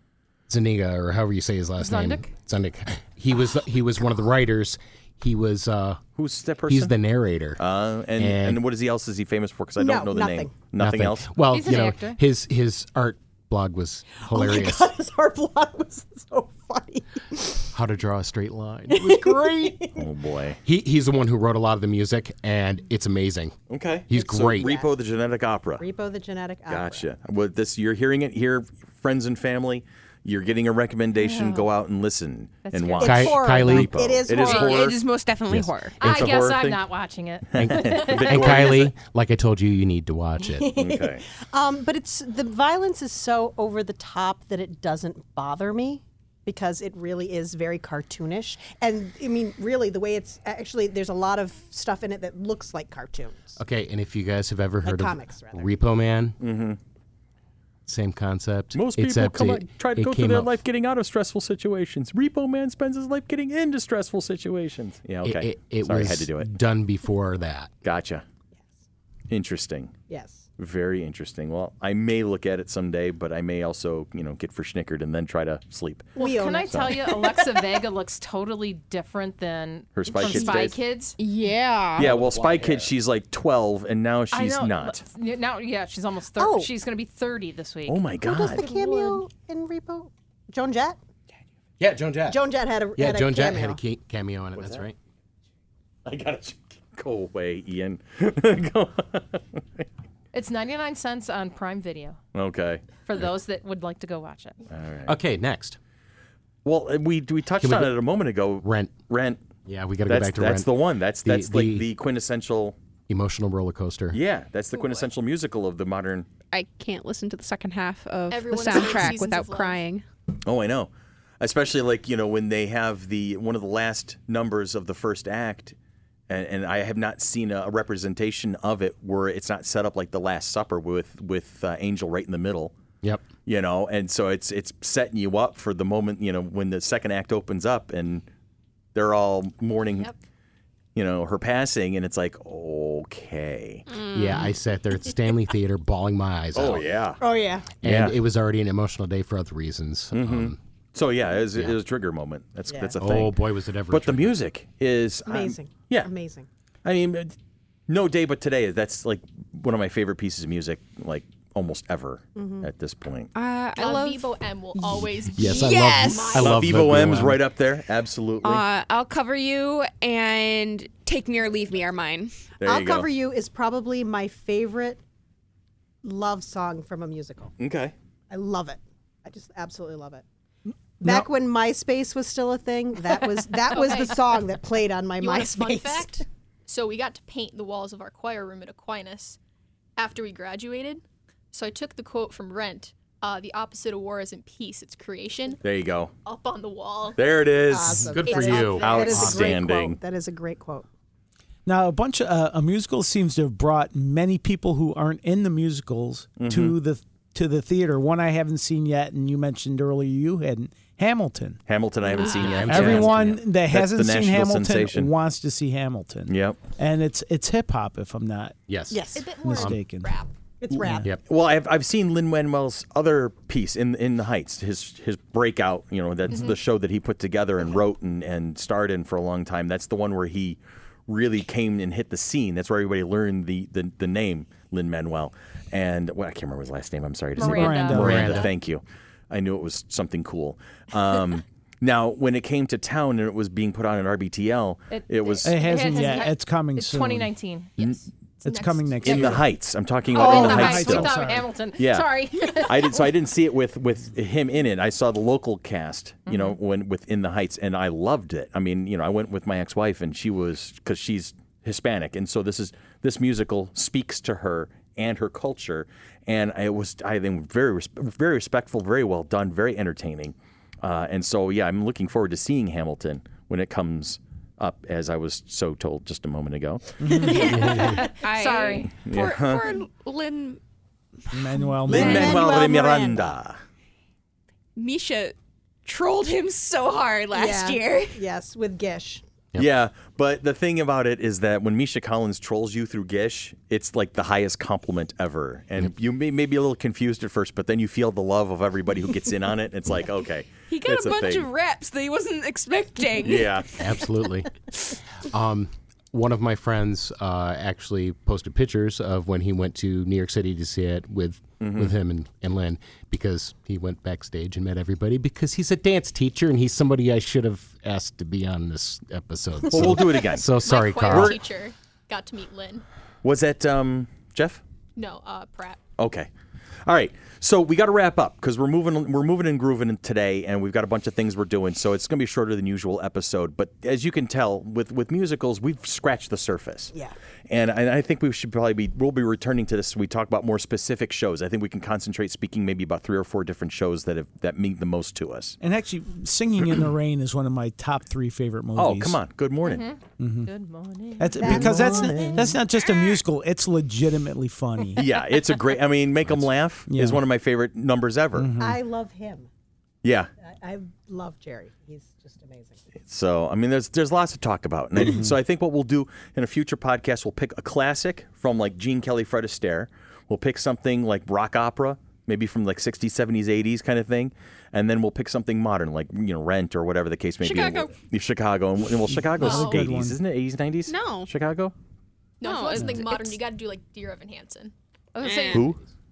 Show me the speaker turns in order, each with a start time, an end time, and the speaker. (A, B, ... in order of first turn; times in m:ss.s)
0:00.5-0:06.0 A
0:01.8-0:02.3 B
0:06.2-0:07.0 C
0:06.7-0:07.6 A
0:07.6-0:11.3 C
0:08.2-0:08.6 A
0:09.8-0:10.6 D
0:10.8-0:14.9 A
0:11.5-0:12.2 B
0:14.2-0:17.7 D
0:17.7-0:19.8 A
0:18.9-0:20.1 D
0:19.9-0:20.6 C
0:20.6-0:23.6 A
0:23.7-0:25.8 C
0:24.1-0:24.7 A
0:24.4-0:24.9 D
0:25.8-0:27.1 D
0:26.7-0:35.0 C
0:31.2-0:31.7 B
0:32.6-0:33.2 B
0:33.0-0:34.9 D
0:33.0-0:34.2 A
0:34.3-0:36.0 E
0:35.5-0:35.7 A
0:36.0-0:38.6 B
0:36.0-0:36.8 C
0:37.5-0:38.9 C
0:37.5-0:40.7 A
0:40.4-0:53.6 D
0:40.7-0:41.2 C
0:53.6-0:56.4 A
0:54.8-0:55.8 D
0:56.4-0:56.8 C
0:57.8-1:00.5 A
0:58.7-1:06.5 C
1:05.2-1:07.7 A
1:07.8-1:08.2 C
1:09.3-1:09.9 C
1:10.1-1:10.4 D
1:10.6-1:16.1 C
1:16.2-1:17.3 D
1:16.2-1:21.2 B
1:16.7-1:17.0 C
1:20.0-1:20.8 C
1:20.2-1:22.1 E
1:22.0-1:25.0 C
1:22.0-1:22.9 A
1:24.3-1:28.0 B
1:26.4-1:26.7 D
1:27.8-1:28.6 C
1:28.2-1:31.0 D
1:28.6-1:29.2 B
1:31.8-1:32.4 A
1:32.3-1:33.8 D
1:33.0-1:35.0 A
1:34.5-1:34.8 C
1:36.0-1:39.9 C
1:40.3-1:42.2 B
1:42.3-1:42.8 C
1:43.0-1:44.6 B
1:44.7-1:45.1 C
1:45.1-1:45.8 A
1:46.6-1:49.4 C
1:47.6-1:48.0 A
1:48.6-1:49.0 A
1:49.6-1:50.7 A
1:50.1-1:52.8 C
1:51.2-1:51.9 A
1:53.1-1:54.2 A
1:54.1-1:56.3 C
1:56.5-2:00.0 E
1:58.3-1:59.8 F
2:00.4-2:05.7 C
2:06.3-2:12.7 C
2:13.0-2:13.3 A
2:13.4-2:18.2 C
2:18.9-2:20.1 C
2:20.9-2:23.9 C
2:23.9-2:24.6 E
2:24.1-2:26.9 A
2:26.5-2:27.2 C
2:27.2-2:27.7 D
2:27.8-2:30.6 A
2:27.8-2:28.2 C
2:30.1-2:36.1 C
2:32.7-2:33.0 D
2:33.0-2:34.4 A
2:35.2-2:36.5 D
2:36.8-2:37.3 C
2:37.9-2:43.3 C
2:42.4-2:42.7 D
2:43.3-2:44.4 E
2:43.8-2:46.6 F
2:45.3-2:47.4 A
2:45.4-2:46.4 E
2:46.3-2:48.6 C
2:48.4-2:52.3 E
2:52.6-2:53.1 C
2:52.6-2:55.0 D
2:56.0-2:57.5 D
2:57.6-2:57.9 C
2:58.3-3:00.2 D
3:01.0-3:06.2 D
3:03.7-3:04.2 F
3:05.2-3:09.4 F
3:10.0-3:15.6 F
3:15.6-3:16.1 C
3:16.2-3:17.2 F
3:17.2-3:20.0 C
3:17.7-3:20.9 D
3:17.8-3:19.5 A
3:18.2-3:19.3 F
3:21.6-3:31.6 G
3:26.4-3:26.8 C
3:31.7-3:35.1 C
3:32.2-3:32.6 F
3:32.2-3:33.4 A
3:32.6-3:38.6 G
3:36.3-3:36.6 C
3:38.7-3:39.8 A
3:38.9-3:39.3 D
3:39.1-3:40.3 F
3:39.4-3:40.1 G
3:40.6-3:41.1 D
3:40.8-3:41.1 G
3:41.2-4:06.1 C
3:46.3-3:46.6 F
3:57.4-3:58.4 B
3:57.4-3:58.5 G
3:57.9-3:58.5 A
4:04.9-4:07.9 B
4:05.4-4:07.3 G
4:07.8-4:09.4 F
4:08.4-4:09.4 G
4:09.0-4:11.2 C
4:10.1-4:13.1 B
4:10.1-4:11.5 G
4:10.3-4:10.6 F
4:11.8-4:37.0 C
4:16.3-4:16.5 B
4:37.0-4:37.6 G
4:37.2-4:40.6 E
4:37.6-4:39.0 B
4:39.0-4:39.6 C
4:41.3-4:42.4 G
4:41.8-4:42.7 E
4:41.9-4:43.6 C
4:41.9-4:43.3 D
4:44.8-4:48.2 E
4:47.3-4:49.2 D
4:49.6-5:01.5 C
5:00.7-5:04.0 E
5:03.2-5:03.7 C
5:03.8-5:04.6 A
5:05.1-5:21.4 A
5:11.6-5:12.0 C
5:19.7-5:21.4 C
5:20.6-5:22.8 F
5:23.2-5:24.6 C
5:25.0-5:25.8 F
5:26.0-5:26.3 C
5:26.8-5:36.9 C
5:37.5-5:45.6 C
5:45.6-5:49.2 G
5:48.8-5:49.8 C
5:49.6-5:52.1 B
5:50.2-5:50.5 G
5:51.2-5:55.0 G
5:51.4-5:52.6 D
5:55.0-5:58.5 C
5:56.9-5:57.2 G
5:58.3-5:58.8 G
5:58.6-5:59.5 D
6:00.0-6:00.3 C
6:00.4-6:02.8 D
6:03.0-6:21.7 C
6:05.1-6:05.3 G
6:17.4-6:17.9 E
6:19.1-6:20.2 G
6:19.4-6:19.8 F
6:20.8-6:21.3 E
6:22.4-6:24.7 F
6:22.4-6:23.4 E
6:25.2-6:25.8 E
6:25.2-6:25.5 B
6:25.5-6:25.8 C